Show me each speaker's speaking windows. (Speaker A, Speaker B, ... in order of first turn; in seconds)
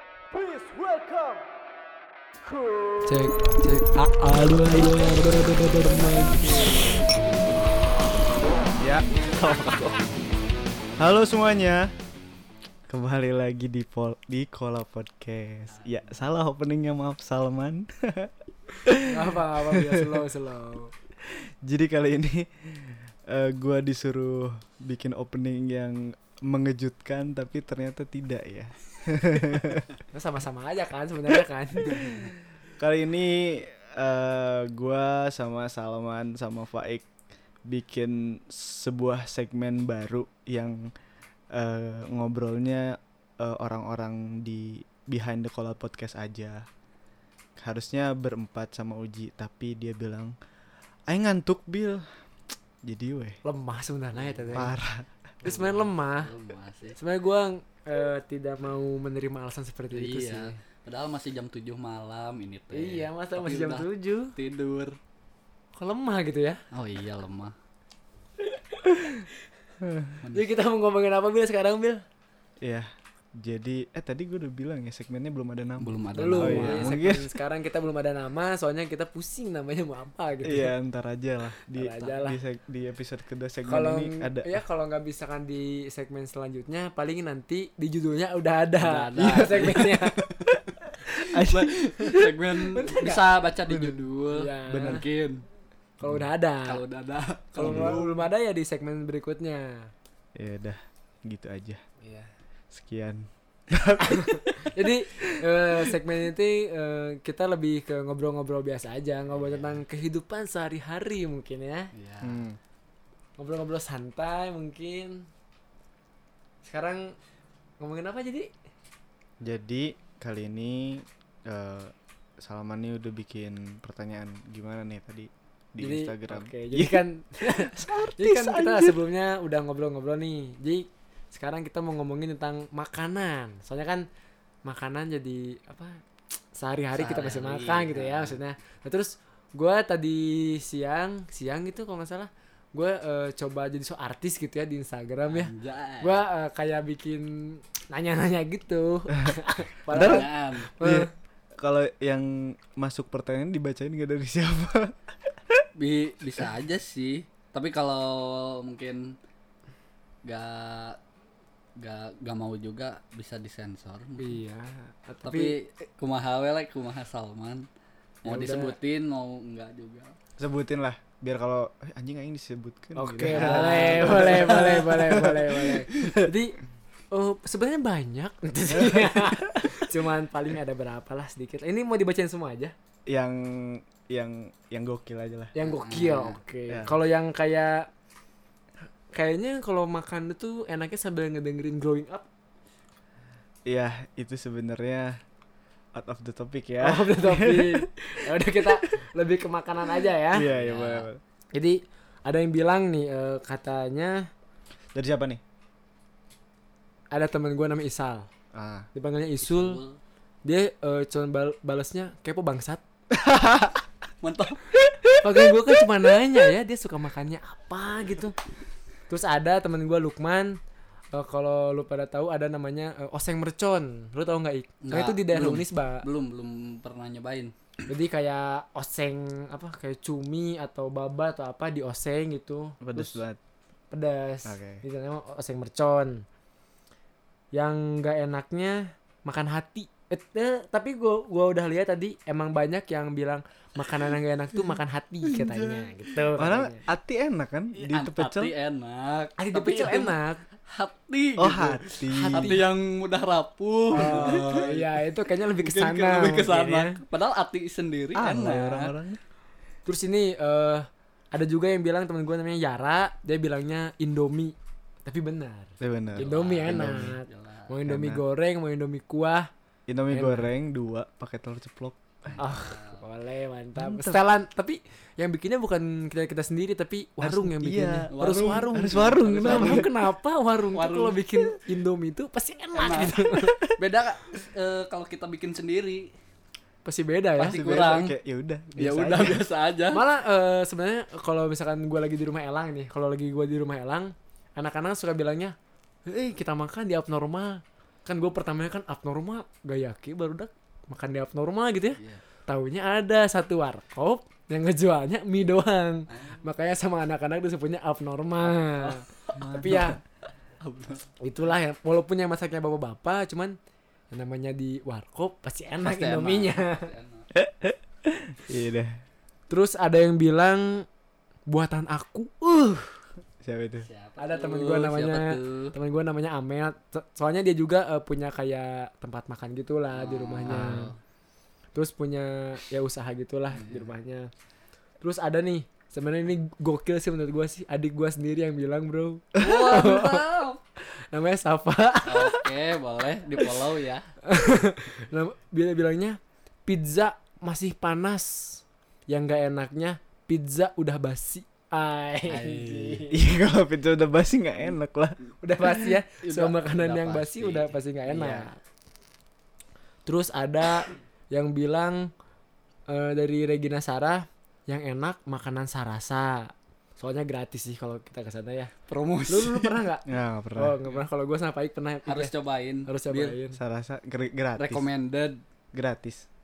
Speaker A: 0.3-1.5, 2.6-3.6, 8.8-10.0, 11.0-11.9, 12.9-20.3, 21.3-29.9, 31.8-32.1, 32.8-37.1, 37.7-40.9, 41.5-46.6, 47.6-50.3, 51.1-52.0, 52.8-53.4, 54.5-55.1, 69.8-70.2, 72.6-77.3, 80.4-84.6, 89.2-92.3, 93.7-94.0, 97.7-98.1, 100.4-101.8, 102.7-106.0, 112.2-112.6, 119.4-129.0, 149.9-155.7, 170.4-176.1, 178.7-179.8, 183.1-185.5, 186.7-187.0, 193.7-195.2, 195.9-197.9, 198.4-198.8, 200.3-201.2, 204.9-205.4, 208.5-208.9, 213.1-213.8, 214.7-215.8, 232.8-233.4, 234.4-234.8, 246.4-248.5, 251.4-252.6, 253.9-254.7, 258.1-259.2, 265.8-267.1, 267.9-268.2, 269.9-272.4, 273.8-274.2, 277.2-279.9, 287.5-289.4, 309.4-310.0, 317.3-319.0, 323.4-323.9, 330.5-330.9, 353.1-355.9, 370.1-370.8, 373.5-374.9, 375.7-376.3
Speaker B: 3.0-6.8, 19.1-20.9, 30.1-32.3, 53.4-54.7, 55.4-56.3, 57.0-60.6, 62.7-64.3, 65.8-66.6, 68.6-69.2, 70.3-72.0, 76.2-80.7, 81.7-82.4, 83.7-90.2, 92.6-93.3, 94.3-95.0, 96.0-96.8, 97.5-99.9, 104.0-111.9, 113.4-115.3, 116.6-117.2, 117.8-118.5, 125.8-134.1, 134.7-136.0, 136.6-151.1, 164.2-165.6, 168.2-168.8, 172.9-176.6, 177.1-182.7, 185.6-187.9, 189.1-192.3, 196.8-200.5, 201.5-204.3, 207.1-208.3, 208.9-209.8, 210.4-212.8, 215.2-218.4, 219.1-220.6, 221.1-226.1, 227.9-233.2, 233.9-236.2, 237.5-246.8, 249.4-250.4, 252.1-252.7, 253.9-257.0, 259.9-269.5, 270.1-270.5, 272.4-283.6, 286.9-287.8, 289.9-310.0, 311.2-313.6, 314.1-316.9, 319.5-320.9, 321.5-323.0, 324.2-330.9, 331.7-334.3, 335.0-340.2, 340.8-342.5, 344.2-353.2, 355.4-358.6, 360.1-362.1, 362.9-372.3, 372.9-373.6
Speaker C: 54.2-54.6, 55.5-57.0, 59.9-65.0, 66.7-67.5, 70.2-70.5, 75.8-76.9, 88.8-90.0, 91.3-95.5, 96.7-98.0, 109.4-109.8, 111.9-112.4, 136.9-138.4, 145.3-146.2, 149.9-150.7, 155.8-159.2, 160.2-161.0, 161.8-164.4, 165.2-167.7, 168.2-170.2, 173.3-176.2, 185.6-186.4, 200.4-201.1, 209.4-210.0, 214.2-214.6, 224.8-227.5, 245.4-245.8, 247.8-258.9, 266.2-267.7, 272.4-273.0, 278.1-279.9, 280.7-281.6, 282.8-283.2, 283.8-286.1, 287.4-288.1, 288.8-290.0, 306.1-306.4, 308.8-309.9, 310.6-311.0, 315.8-317.3, 323.8-325.7, 329.9-331.0, 333.5-333.8, 339.4-340.6, 342.1-344.1, 352.3-353.0, 356.2-358.5, 368.9-369.7, 372.1-373.4, 374.6-375.4